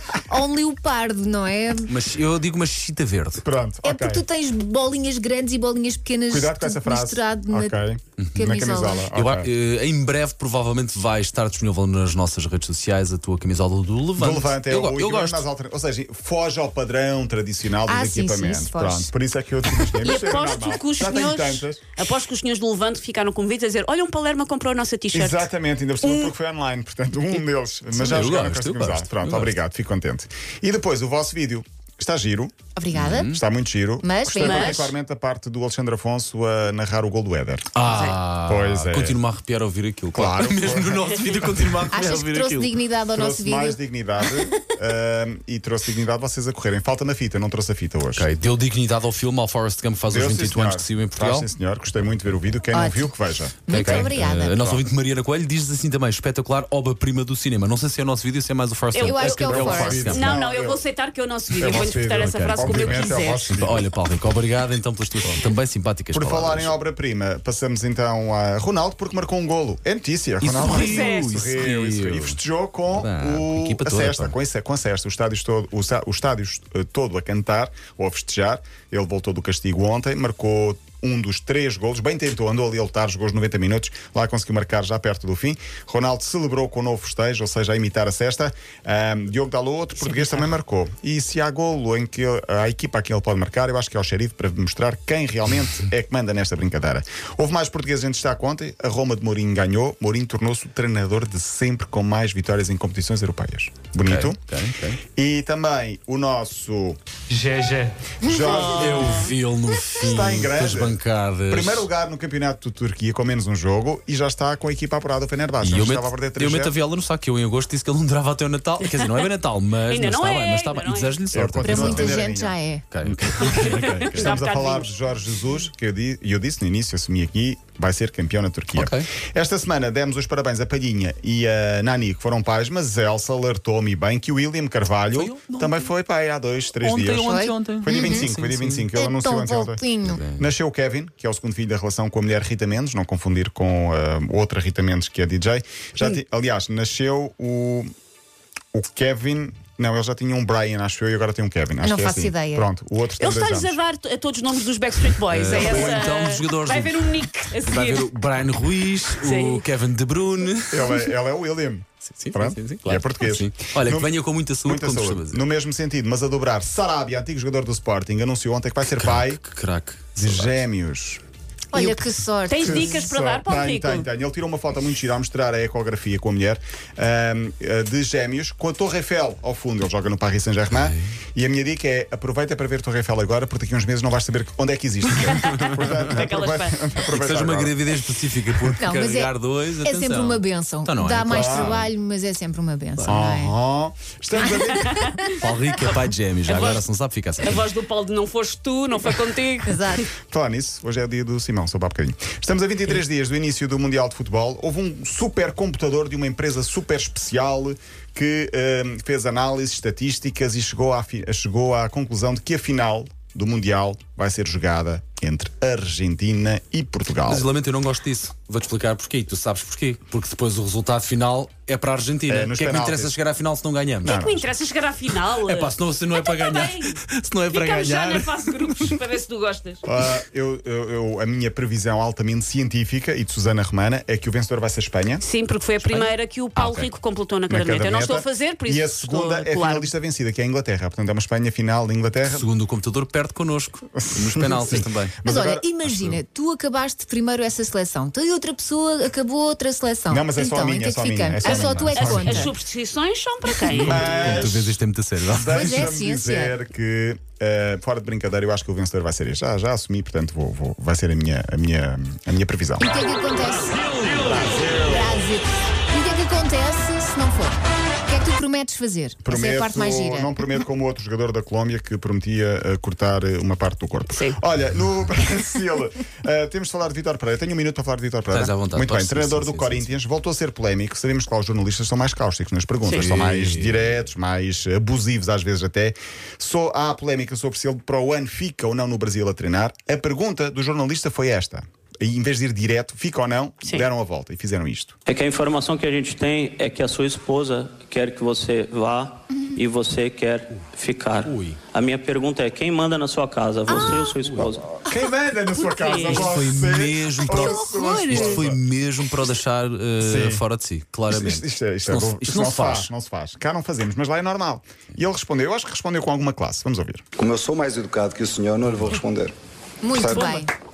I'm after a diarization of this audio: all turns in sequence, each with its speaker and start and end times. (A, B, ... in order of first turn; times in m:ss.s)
0:00.3-0:01.9 A
0:01.9-0:03.4 B
0:03.4-0:04.2 C
0:03.8-0:07.8 A
0:06.3-0:09.5 C
0:08.2-0:08.5 B
0:08.3-0:09.1 A
0:09.1-0:15.4 B
0:14.2-0:21.8 C
0:17.8-0:19.1 A
0:20.0-0:25.5 D
0:25.1-0:32.5 C
0:26.0-0:26.3 D
0:27.9-0:29.5 B
0:32.8-0:33.3 A
0:32.9-0:33.4 B
0:33.3-0:37.7 C
0:34.0-0:34.9 A
0:34.4-0:34.8 D
0:37.8-0:42.8 B
0:37.9-0:38.2 D
0:38.4-0:39.2 C
0:40.1-0:41.1 C
0:41.9-0:44.6 A
0:43.1-0:48.3 C
0:48.2-0:51.5 B
0:50.1-0:54.8 C
0:52.7-0:53.1 A
0:53.7-0:54.6 A
0:53.7-1:00.3 B
0:58.9-1:03.6 D
0:59.0-1:00.2 A
0:59.4-1:00.8 C
1:01.6-1:03.8 C
1:02.1-1:02.8 B
1:03.3-1:06.7 B
1:06.1-1:44.4 C
1:10.4-1:12.4 B
1:10.6-1:11.3 D
1:12.9-1:14.3 B
1:44.0-1:45.0 B
1:45.1-1:47.0 C
1:47.3-1:51.9 B
1:48.2-1:49.3 C
1:48.4-1:49.3 D
1:50.0-1:56.7 C
1:55.6-2:02.2 B
1:59.8-2:01.1 D
2:01.3-2:02.6 C
2:01.6-2:02.8 A
2:02.9-2:04.4 B
2:03.4-2:04.9 D
2:04.0-2:19.8 C
2:08.7-2:09.1 B
2:15.1-2:15.9 B
2:16.8-2:18.9 B
2:17.2-2:18.3 A
2:19.0-2:20.2 A
2:20.0-2:20.4 B
2:20.4-2:27.9 C
2:28.7-2:33.8 C
2:31.8-2:32.7 A
2:33.2-2:38.1 D
2:35.3-2:37.1 B
2:37.6-2:41.0 B
2:39.2-2:39.6 D
2:40.7-2:49.4 C
2:42.1-2:45.4 B
2:48.9-2:50.6 B
2:50.2-2:51.2 C
2:51.7-2:53.0 A
2:52.5-2:54.1 D
2:52.6-3:07.8 C
3:00.7-3:01.1 B
3:05.4-3:06.8 D
3:07.1-3:11.9 B
3:08.7-3:13.5 A
3:11.3-3:11.9 C
3:13.0-3:15.2 C
3:14.4-3:15.3 A
3:15.3-3:17.7 B
3:16.5-3:16.8 D
3:17.4-3:20.1 D
3:19.6-3:20.0 A
3:20.3-3:37.4 C
3:37.3-3:44.1 B
3:42.3-3:43.1 C
3:44.0-3:44.5 C
3:44.0-3:47.0 D
3:45.1-3:49.0 B
3:47.5-3:49.8 D
3:49.8-3:55.2 C
3:55.2-3:59.9 D
3:55.8-3:56.9 B
3:57.5-4:02.5 C
4:02.2-4:05.1 B
4:03.9-4:06.2 C
4:05.2-4:12.5 A
4:10.1-4:12.5 C
4:11.4-4:14.2 D
4:13.6-4:15.6 B
4:13.8-4:14.7 C
4:15.3-4:22.9 C
4:15.5-4:16.6 A
4:22.8-4:30.3 A
4:24.2-4:25.2 C
4:29.2-4:54.9 C
4:38.3-4:39.9 B
4:42.9-4:44.0 B
4:55.1-5:04.8 E
5:01.3-5:01.6 B
5:03.7-5:04.0 D
5:04.2-5:04.5 B
5:04.8-5:08.6 C
5:05.5-5:06.3 D
5:06.2-5:12.9 B
5:07.2-5:08.4 A
5:10.0-5:10.4 C
5:11.1-5:17.0 C
5:17.2-5:19.3 F
5:19.8-5:20.5 A
5:19.9-5:20.4 F
5:20.1-5:20.4 D